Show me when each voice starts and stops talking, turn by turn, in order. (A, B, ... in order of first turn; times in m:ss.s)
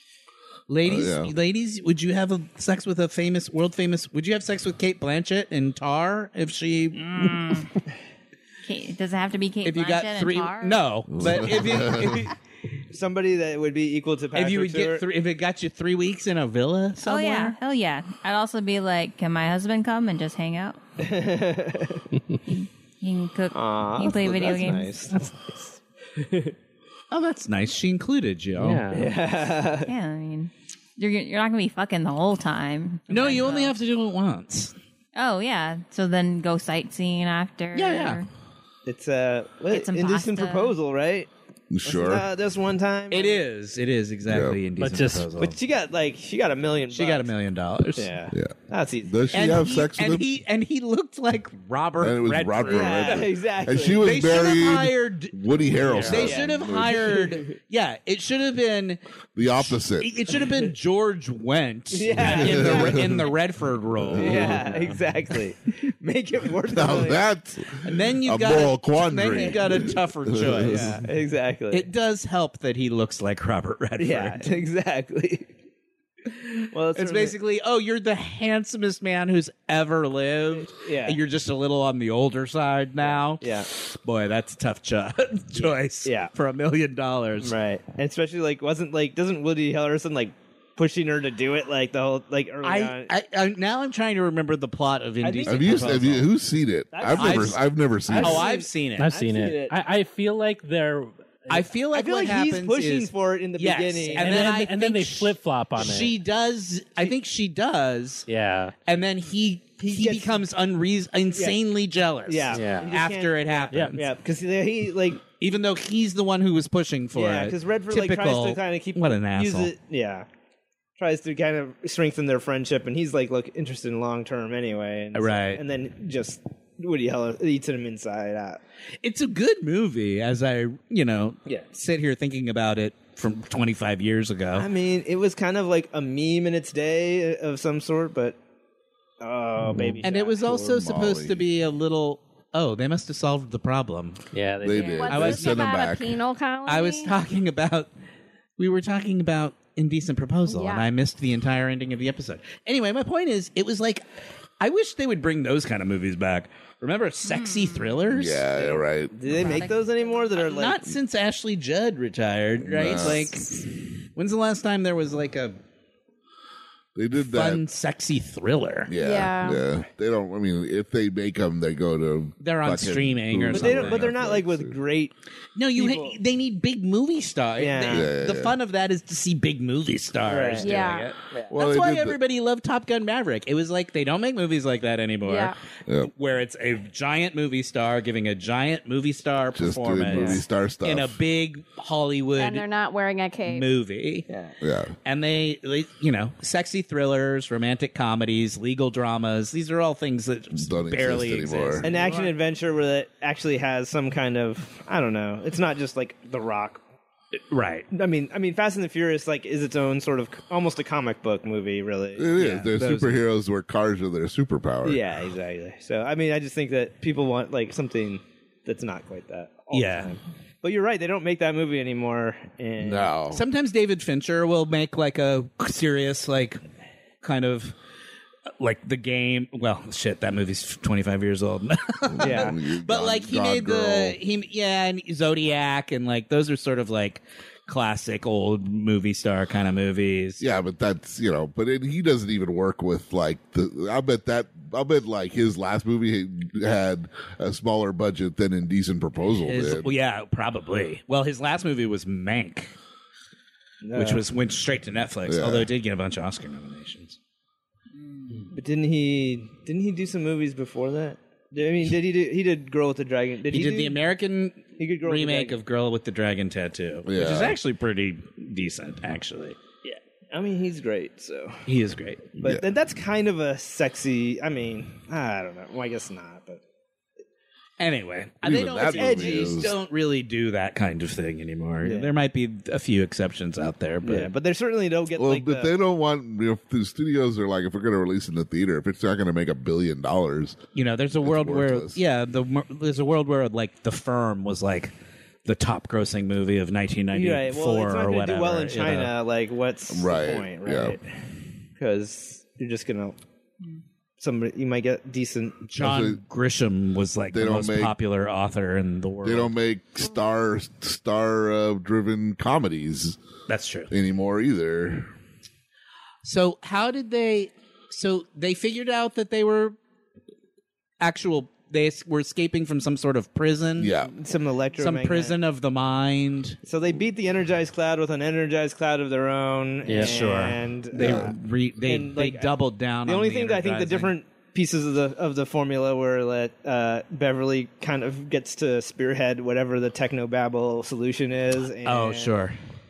0:00.7-0:07.6 A
0:00.8-0:01.3 B
0:06.9-0:07.7 C
0:08.6-0:10.8 C
0:09.6-0:12.3 A
0:11.1-0:12.2 B
0:12.9-0:15.0 D
0:14.3-0:17.6 A
0:17.0-0:20.8 C
0:21.0-0:22.0 D
0:22.4-0:25.1 C
0:23.5-0:25.3 D
0:26.2-0:26.5 D
0:27.1-0:28.8 A
0:28.6-0:29.2 E
0:28.9-0:29.9 D
0:29.8-0:33.7 C
0:33.1-0:34.7 A
0:33.2-0:33.6 D
0:35.1-0:38.2 C
0:37.7-0:38.2 A
0:38.8-0:41.3 D
0:39.7-0:40.8 C
0:41.7-0:42.2 B
0:41.8-0:43.4 D
0:43.1-0:45.6 A
0:44.3-0:44.6 B
0:44.8-0:45.3 E
0:45.4-0:47.3 D
0:46.9-0:48.1 A
0:48.0-0:49.3 D
0:48.3-0:50.2 B
0:49.3-0:53.3 A
0:52.0-0:56.9 B
0:52.6-0:54.1 D
0:54.0-1:04.7 A
0:56.1-0:57.6 D
0:59.4-1:00.1 B
1:01.9-1:03.3 D
1:02.2-1:03.2 B
1:04.0-1:04.6 B
1:04.2-1:07.2 D
1:06.7-1:11.0 B
1:07.8-1:11.0 A
1:10.7-1:11.9 D
1:11.7-1:14.5 A
1:14.0-1:15.5 D
1:16.7-1:17.4 D
1:16.9-1:27.5 A
1:20.5-1:21.2 D
1:23.0-1:23.7 D
1:26.0-1:26.3 D
1:27.4-1:33.1 D
1:32.6-1:36.3 A
1:35.2-1:35.9 D
1:35.5-1:38.4 B
1:36.9-1:39.8 D
1:37.1-1:37.6 A
1:38.1-1:39.1 A
1:38.2-1:38.4 E
1:39.0-1:41.7 E
1:41.5-1:48.3 A
1:41.9-1:44.5 D
1:44.1-1:46.2 E
1:48.3-1:48.7 E
1:48.8-1:54.0 A
1:49.8-1:50.4 D
1:52.2-1:55.2 D
1:52.5-1:53.0 E
1:53.7-1:54.0 E
1:55.4-1:59.7 A
1:57.1-2:00.3 D
2:01.0-2:08.6 D
2:05.1-2:05.6 A
2:09.0-2:14.7 A
2:14.5-2:18.4 D
2:19.2-2:20.4 D
2:20.0-2:24.2 A
2:20.4-2:21.4 B
2:24.3-2:25.1 E
2:24.6-2:26.2 B
2:24.8-2:27.1 F
2:25.1-2:25.8 A
2:26.6-2:27.9 A
2:28.6-2:34.0 A
2:30.5-2:30.9 F
2:34.6-2:38.6 A
2:37.2-2:38.0 C
2:38.1-2:39.1 B
2:38.8-2:40.9 D
2:39.3-2:39.8 C
2:40.4-2:43.6 A
2:42.6-2:43.3 B
2:44.2-2:45.6 A
2:47.0-2:47.6 B
2:47.2-2:48.9 A
2:48.9-2:54.8 B
2:49.0-2:49.6 F
2:52.4-2:54.2 A
2:53.5-2:55.1 D
2:55.6-3:12.6 A
2:55.7-2:56.2 D
2:57.6-2:58.0 D
2:57.9-2:58.5 B
3:00.2-3:01.5 D
3:00.6-3:01.1 F
3:01.5-3:02.2 B
3:05.2-3:05.6 F
3:09.5-3:11.2 B
3:10.1-3:10.4 D
3:12.4-3:13.7 F
3:13.4-3:14.3 A
3:14.3-3:14.5 D
3:14.6-3:15.0 B
3:15.0-3:22.3 A
3:20.5-3:21.9 B
3:21.8-3:26.8 D
3:27.5-3:27.9 A
3:27.9-3:32.3 D
3:32.2-3:35.0 B
3:32.4-3:33.2 A
3:34.8-3:43.1 D
3:39.7-3:40.1 A
3:42.8-3:43.4 B
3:43.3-3:46.6 A
3:47.2-3:47.8 A
3:48.6-4:00.4 A
3:52.1-3:54.2 B
3:52.2-3:52.6 D
4:00.4-4:09.9 B
4:09.4-4:12.7 A
4:13.8-4:14.2 D
4:13.9-4:17.2 A
4:15.3-4:15.7 B
4:17.9-4:18.5 C
4:18.5-4:24.0 D
4:23.4-4:29.6 A
4:24.8-4:25.6 D
4:27.0-4:27.6 B
4:29.8-4:31.6 D
4:31.6-4:32.4 A
4:32.4-4:36.6 D
4:37.8-4:44.3 A
4:38.4-4:39.7 B
4:38.9-4:39.6 D
4:41.8-4:42.2 D
4:44.0-4:45.7 D
4:45.2-4:50.6 B
4:50.7-4:54.9 A
4:51.2-4:52.0 B
4:55.4-4:59.1 A
4:57.1-5:01.0 D
4:59.9-5:01.0 B
5:01.8-5:03.2 D
5:04.2-5:05.6 D
5:05.7-5:09.5 A
5:05.8-5:06.2 B
5:07.3-5:08.0 B
5:09.2-5:13.2 B
5:13.5-5:13.9 A
5:13.9-5:15.1 B
5:16.2-5:19.8 A
5:21.0-5:23.9 A
5:23.8-5:24.1 B
5:24.0-5:25.4 D
5:24.8-5:26.6 A
5:26.6-5:42.4 D
5:29.8-5:30.2 E
5:29.9-5:34.1 A
5:31.0-5:31.3 B
5:41.8-5:42.6 A